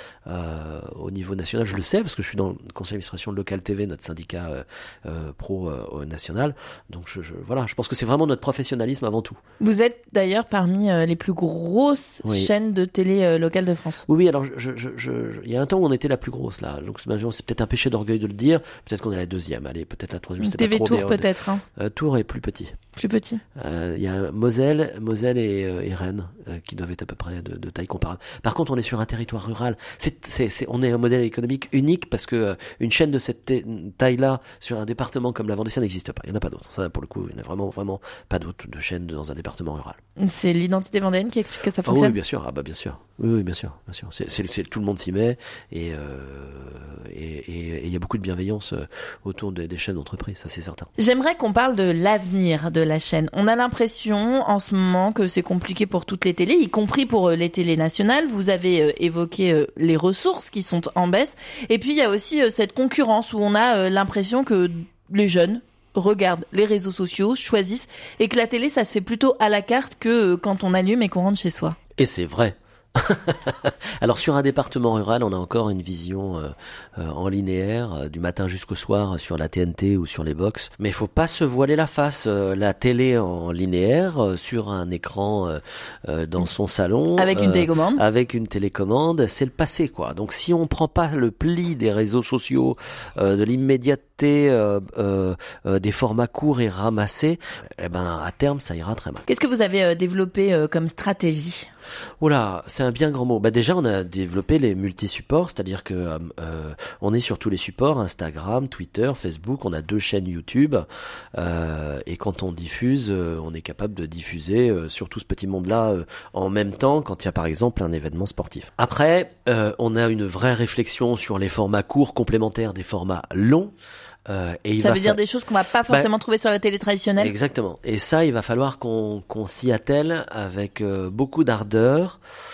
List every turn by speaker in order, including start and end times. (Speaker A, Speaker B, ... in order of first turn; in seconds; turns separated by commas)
Speaker A: 0.3-9.4, Speaker B: 9.6-14.0, Speaker A: 12.2-12.5, Speaker A: 14.1-22.7, Speaker B: 20.4-21.6, Speaker B: 22.9-23.4, Speaker A: 23.6-40.0, Speaker B: 40.2-42.2, Speaker A: 41.8-50.9, Speaker B: 51.0-71.8, Speaker A: 72.0-99.2, Speaker B: 87.2-88.0, Speaker B: 99.3-101.7, Speaker A: 102.2-123.7, Speaker A: 124.3-125.2, Speaker B: 124.8-127.3, Speaker A: 127.2-132.2